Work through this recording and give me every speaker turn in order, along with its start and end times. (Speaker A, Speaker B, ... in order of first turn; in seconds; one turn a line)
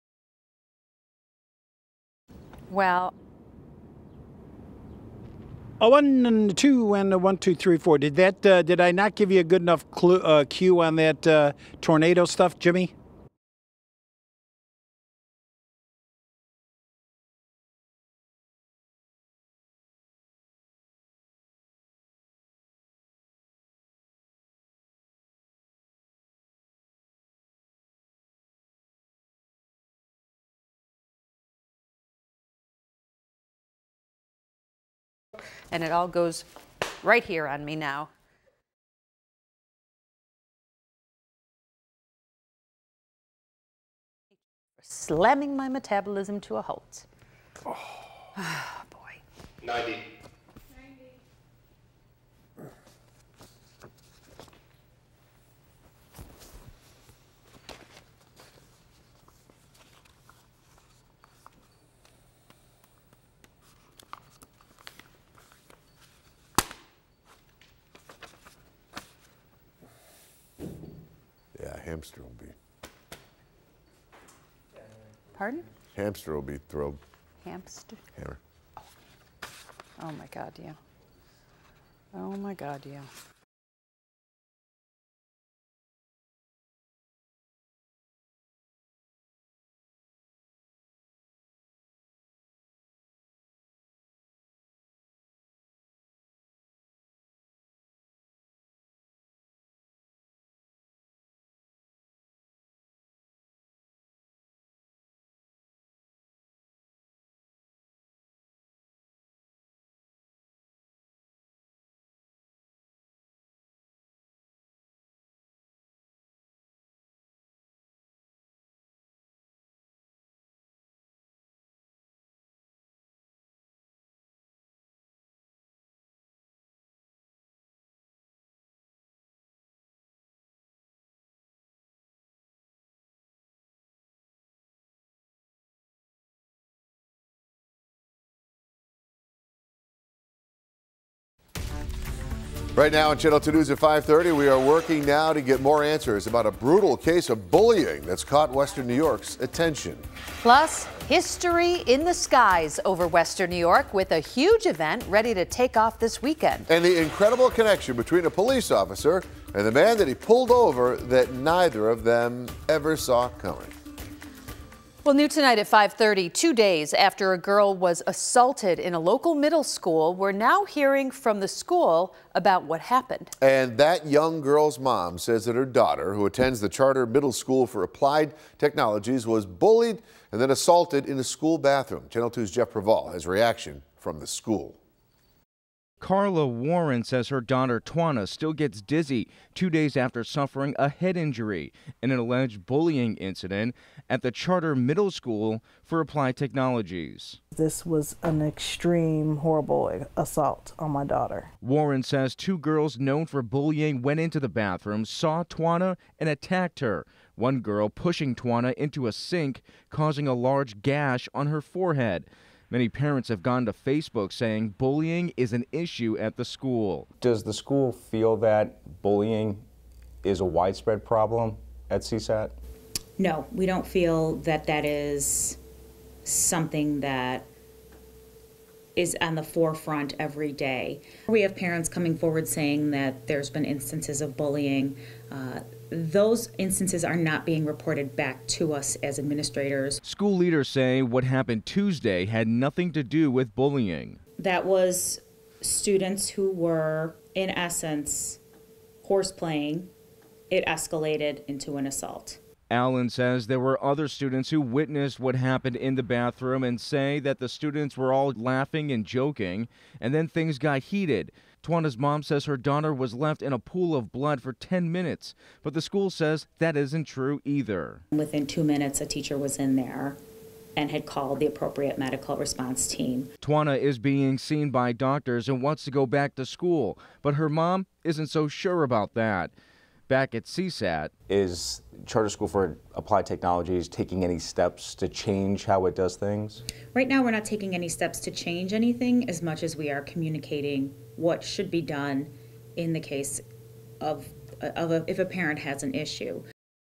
Speaker A: 2.7-3.1
Speaker B: 5.8-12.9
Speaker A: 35.7-36.5
Speaker A: 37.0-38.1
Speaker A: 44.8-47.1
Speaker A: 48.4-49.2
Speaker C: 71.5-72.5
Speaker A: 75.3-75.7
Speaker C: 75.9-77.0
Speaker A: 77.4-78.0
Speaker A: 80.0-80.8
Speaker A: 82.1-83.1
Speaker C: 142.8-150.1
Speaker A: 150.4-156.7
Speaker C: 156.7-163.7
Speaker A: 165.0-173.3
Speaker C: 173.4-184.8
Speaker D: 186.0-197.4
Speaker E: 197.6-201.5
Speaker D: 201.6-217.1
Speaker F: 217.2-219.6
Speaker D: 218.9-219.4
Speaker F: 220.2-222.5
Speaker D: 221.1-221.5
Speaker G: 223.2-225.6
Speaker G: 226.2-227.5
Speaker G: 228.9-240.0
Speaker D: 240.0-244.2
Speaker G: 244.4-248.4
Speaker G: 249.0-249.9
Speaker G: 250.5-252.4
Speaker D: 252.7-268.0
Speaker G: 268.1-270.2
Speaker G: 270.8-273.3
Speaker D: 273.4-279.5
Speaker D: 280.1-286.6
Speaker F: 281.3-283.9
Speaker F: 286.0-286.6
Speaker G: 286.9-293.4
Speaker G: 294.0-296.4